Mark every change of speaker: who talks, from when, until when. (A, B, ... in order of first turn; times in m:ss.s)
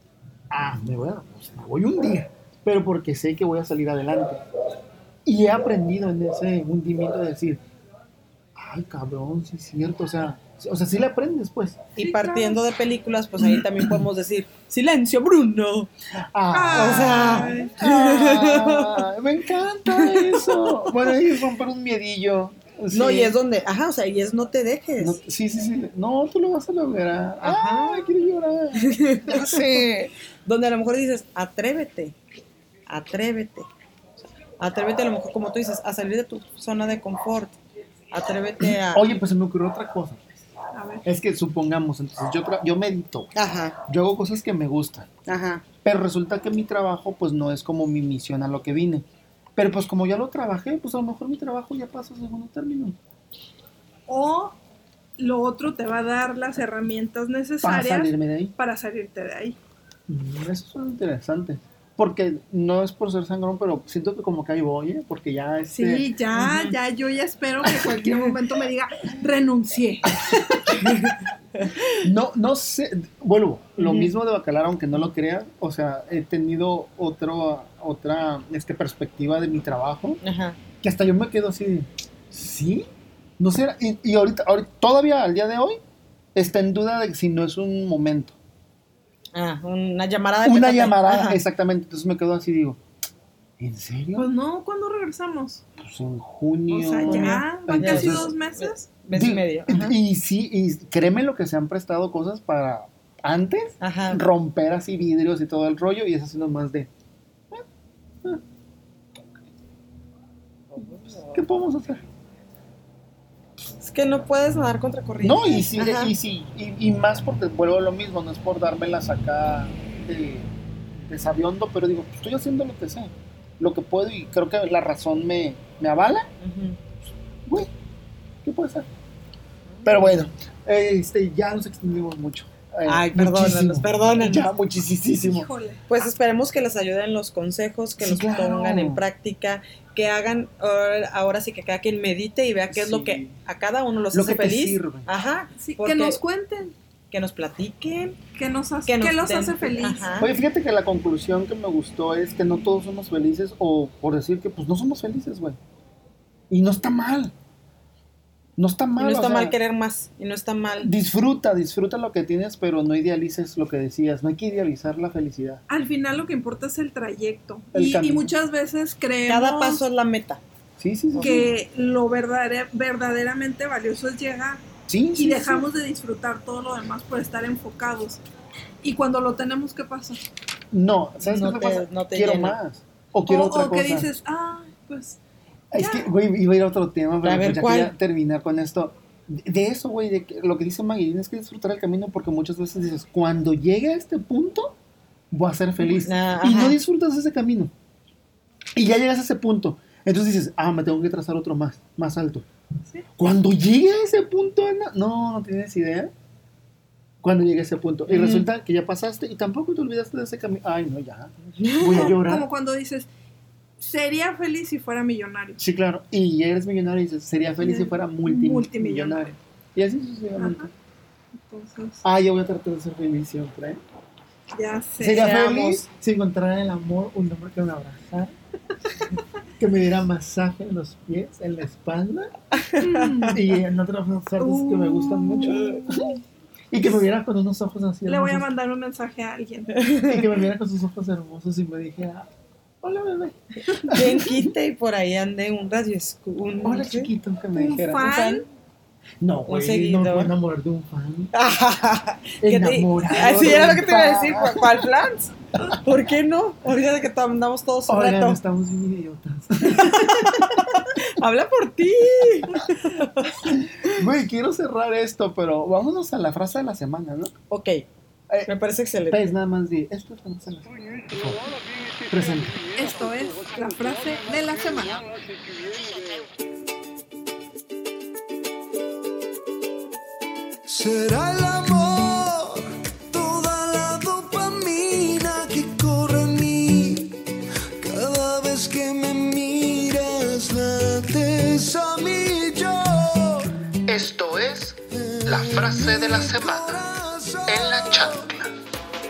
0:00.5-0:04.4 A
0:05.3-0:07.6 A
0:08.6-0:11.8 A
0:12.0-0:15.9 B
0:12.0-0:12.6 C
0:13.4-0:14.0 A
0:16.1-0:23.4 A
0:16.5-0:17.7 C
0:16.7-0:19.0 B
0:19.9-0:20.9 B
0:22.9-0:25.2 B
0:25.0-0:30.1 A
0:27.4-0:28.1 B
0:28.8-0:29.8 B
0:30.4-0:32.2 B
0:32.9-0:33.7 B
0:34.6-0:37.6 B
0:38.1-0:39.1 B
0:38.6-0:40.4 A
0:40.7-0:41.0 C
0:41.0-0:43.3 A
0:43.3-0:43.8 B
0:43.8-0:45.1 A
0:45.3-0:45.6 B
0:45.8-0:49.0 A
0:49.6-0:53.0 A
0:54.1-0:54.6 C
0:55.2-0:59.6 C
0:57.6-0:58.5 A
1:00.1-1:06.1 A
1:05.7-1:10.7 C
1:06.3-1:06.8 B
1:07.6-1:08.4 A
1:10.7-1:11.9 B
1:12.0-1:20.2 A
1:13.8-1:14.1 B
1:20.2-1:20.6 B
1:20.8-1:22.9 A
1:23.4-1:25.8 A
1:26.4-1:28.4 A
1:29.3-1:31.4 B
1:30.4-1:32.8 A
1:33.6-1:34.3 A
1:34.2-1:35.6 C
1:35.8-1:38.3 A
1:36.7-1:38.9 C
1:37.0-1:40.0 B
1:39.1-1:46.9 A
1:43.8-1:44.2 B
1:50.7-1:51.5 B
1:51.3-1:52.0 A
1:53.8-1:56.1 B
1:55.2-2:00.5 A
2:01.1-2:06.3 A
2:06.4-2:06.8 B
2:07.5-2:07.7 A
2:08.4-2:08.9 A
2:09.7-2:10.3 B
2:09.8-2:15.5 A
2:12.8-2:14.5 B
2:15.2-2:15.9 C
2:15.9-2:26.2 B
2:18.0-2:19.0 A
2:22.7-2:23.4 A
2:24.1-2:25.1 A
2:25.6-2:26.8 C
2:27.1-2:28.2 B
2:28.4-2:30.2 C
2:28.9-2:30.3 B
2:30.2-2:35.6 A
2:36.5-2:37.3 A
2:38.6-2:39.6 A
2:39.0-2:40.9 B
2:40.8-2:45.6 A
2:45.7-2:49.8 C
2:47.7-2:48.3 A
2:49.3-2:50.4 B
2:50.8-2:51.5 A
2:51.2-2:54.6 C
2:54.9-2:55.7 A
2:55.1-2:58.2 C
2:58.8-3:00.2 C
3:00.7-3:04.1 A
3:01.2-3:02.6 B
3:03.3-3:05.2 C
3:05.7-3:14.8 A
3:05.8-3:06.1 C
3:07.2-3:07.9 B
3:15.3-3:17.7 A
3:16.0-3:16.8 B
3:18.8-3:22.5 A
3:23.2-3:26.1 A
3:27.2-3:32.5 A
3:28.1-3:28.5 B
3:31.6-3:32.1 B
3:31.9-3:33.1 C
3:33.8-3:35.6 C
3:35.6-3:40.7 A
3:37.6-3:39.4 C
3:40.4-3:40.7 C
3:41.3-3:42.0 C
3:42.0-3:43.8 A
3:44.6-3:45.6 C
3:45.0-3:48.3 A
3:45.2-3:45.8 B
3:49.6-3:52.3 A
3:52.6-3:53.3 B
3:52.8-3:53.6 C
3:53.3-3:56.1 A
3:54.4-3:55.8 C
3:55.4-3:56.2 B
3:56.7-3:58.5 A
3:58.1-3:59.8 C
3:59.8-4:00.2 B
4:00.0-4:02.3 A
4:02.8-4:04.5 A
4:03.7-4:07.1 B
4:06.6-4:08.1 A
4:07.6-4:08.5 C
4:07.9-4:08.4 B
4:09.2-4:11.3 A
4:09.5-4:10.3 B
4:11.3-4:18.4 B
4:12.4-4:14.9 A
4:17.9-4:20.6 A
4:19.6-4:23.4 B
4:23.4-4:27.3 A
4:27.5-4:27.8 B
4:28.5-4:29.3 B
4:29.1-4:31.5 A
4:32.1-4:32.6 A
4:32.8-4:35.0 C
4:40.6-4:47.2 D
4:47.8-4:53.6 D
4:53.9-4:56.9 E
4:55.0-4:58.2 D
4:57.5-4:58.5 E